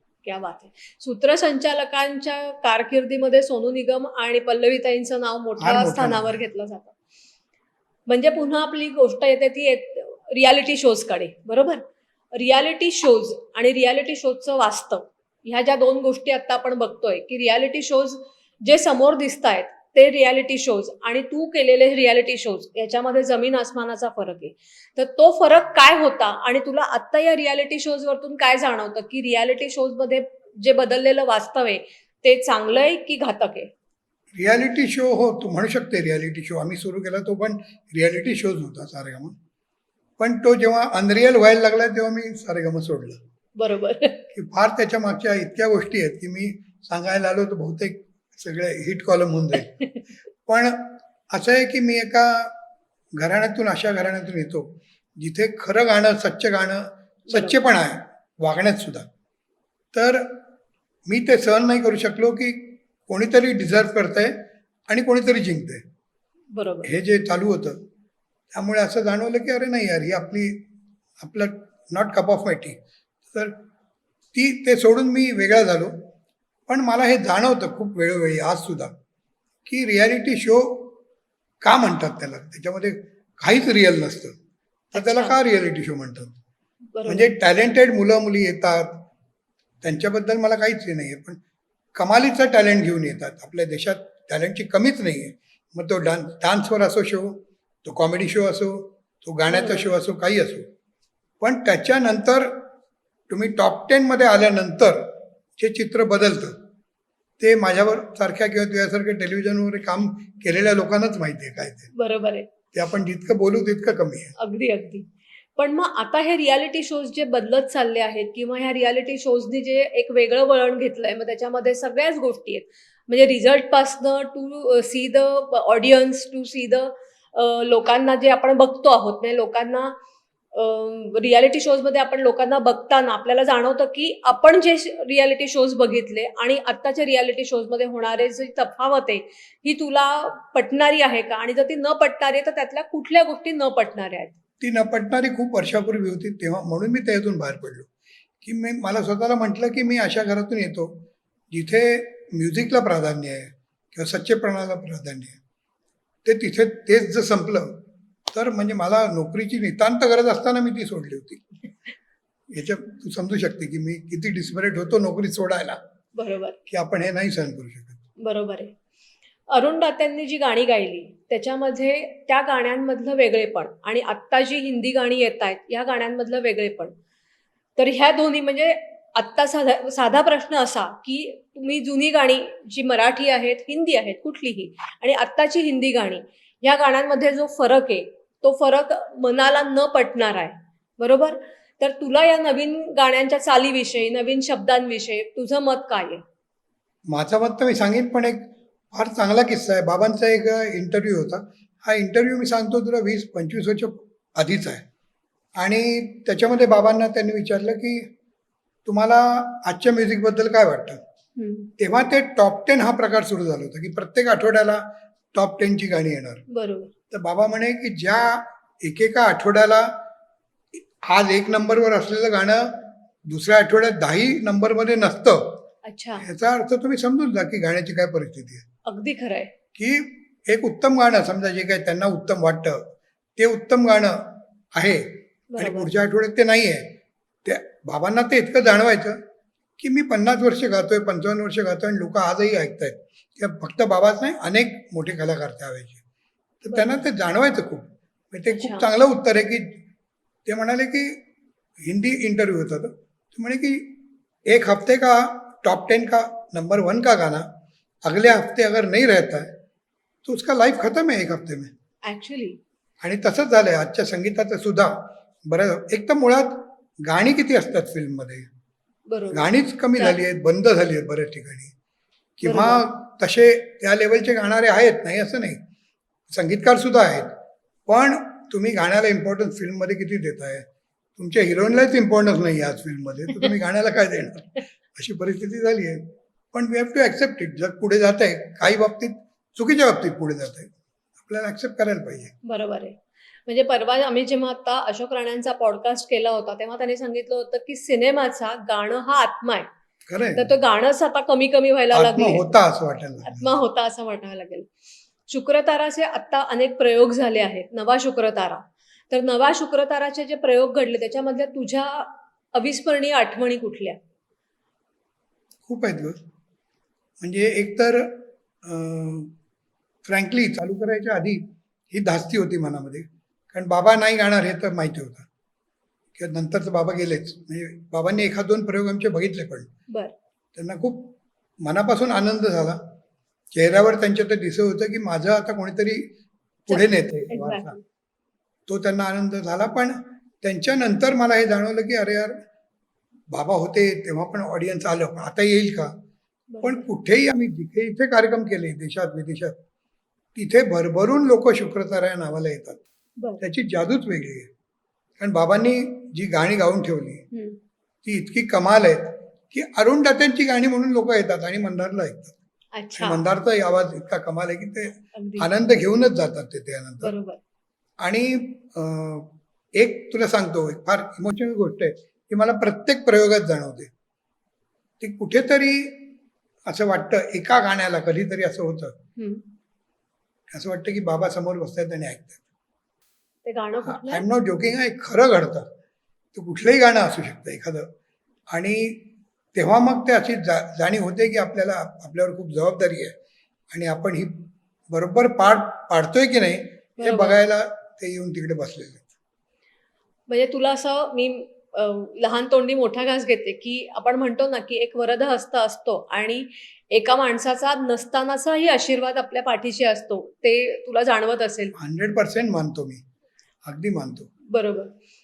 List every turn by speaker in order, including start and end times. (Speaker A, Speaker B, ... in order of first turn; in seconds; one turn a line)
Speaker A: 0.2-6.9
Speaker B: 5.6-6.4
Speaker A: 8.1-33.7
Speaker B: 34.4-39.3
Speaker B: 40.2-43.2
Speaker A: 43.6-44.2
Speaker B: 44.3-49.8
Speaker B: 50.5-52.5
Speaker B: 53.2-59.1
Speaker A: 57.3-57.5
Speaker B: 59.9-60.4
Speaker B: 61.1-65.8
Speaker A: 66.5-66.9
Speaker B: 66.8-67.8
Speaker B: 68.5-70.6
Speaker B: 71.2-73.6
Speaker B: 74.3-76.0
Speaker B: 76.7-78.9
Speaker B: 79.7-80.9
Speaker B: 81.6-84.4
Speaker B: 84.9-86.3
Speaker A: 85.0-85.4
Speaker A: 86.9-87.3
Speaker B: 87.1-89.0
Speaker B: 89.8-91.4
Speaker B: 92.0-100.7
Speaker A: 99.5-99.8
Speaker B: 101.4-102.7
Speaker B: 103.3-106.6
Speaker B: 107.4-111.9
Speaker A: 112.0-112.5
Speaker B: 112.7-114.3
Speaker A: 114.4-129.9
Speaker A: 130.5-144.3
Speaker B: 144.6-147.9
Speaker B: 148.4-155.4
Speaker B: 156.2-157.8
Speaker B: 158.3-161.4
Speaker B: 162.5-165.8
Speaker A: 166.2-166.6
Speaker B: 166.7-168.0
Speaker A: 168.2-168.7
Speaker A: 169.5-176.9
Speaker A: 177.8-196.2
Speaker B: 197.1-204.8
Speaker B: 205.6-208.1
Speaker B: 208.9-211.0
Speaker A: 211.4-211.7
Speaker B: 211.8-216.4
Speaker A: 216.5-216.9
Speaker B: 217.1-219.9
Speaker B: 220.8-225.6
Speaker A: 225.8-226.2
Speaker B: 226.2-228.7
Speaker A: 228.9-229.5
Speaker B: 229.8-236.9
Speaker A: 235.5-235.9
Speaker B: 237.4-239.2
Speaker B: 239.8-246.0
Speaker B: 246.6-249.8
Speaker A: 246.7-247.0
Speaker A: 248.5-248.8
Speaker B: 250.5-251.2
Speaker B: 251.9-257.5
Speaker B: 258.0-259.5
Speaker B: 260.2-261.7
Speaker A: 262.1-262.6
Speaker B: 263.0-268.5
Speaker A: 269.1-269.5
Speaker B: 269.3-271.7
Speaker B: 272.4-275.6
Speaker A: 272.5-272.8
Speaker B: 276.3-277.3
Speaker B: 277.9-280.6
Speaker B: 281.2-292.3
Speaker A: 292.4-299.7
Speaker B: 300.1-300.5
Speaker A: 300.4-302.5
Speaker B: 301.9-303.5
Speaker A: 303.2-304.7
Speaker A: 305.3-314.0
Speaker B: 315.7-316.2
Speaker B: 317.2-319.3
Speaker B: 320.1-325.3
Speaker B: 326.2-329.7
Speaker B: 330.6-332.8
Speaker B: 333.5-336.1
Speaker B: 336.7-337.8
Speaker A: 336.7-337.8
Speaker B: 338.7-342.4
Speaker B: 343.3-345.9
Speaker A: 346.5-346.9
Speaker B: 346.6-349.6
Speaker B: 350.4-352.8
Speaker B: 353.4-354.5
Speaker B: 355.2-357.2
Speaker A: 357.3-357.6
Speaker B: 358.1-362.4
Speaker A: 362.8-363.2
Speaker B: 362.9-367.1
Speaker A: 365.1-365.5
Speaker A: 367.0-367.4
Speaker B: 368.0-373.9
Speaker B: 375.0-376.1
Speaker B: 376.7-378.9
Speaker A: 379.2-379.4
Speaker B: 380.5-382.4
Speaker A: 383.4-384.2
Speaker B: 383.8-385.7
Speaker B: 386.3-387.9
Speaker B: 388.5-393.1
Speaker B: 393.7-399.1
Speaker A: 397.0-397.4
Speaker A: 400.3-411.8
Speaker B: 411.8-413.0
Speaker B: 413.7-414.3
Speaker A: 414.5-414.9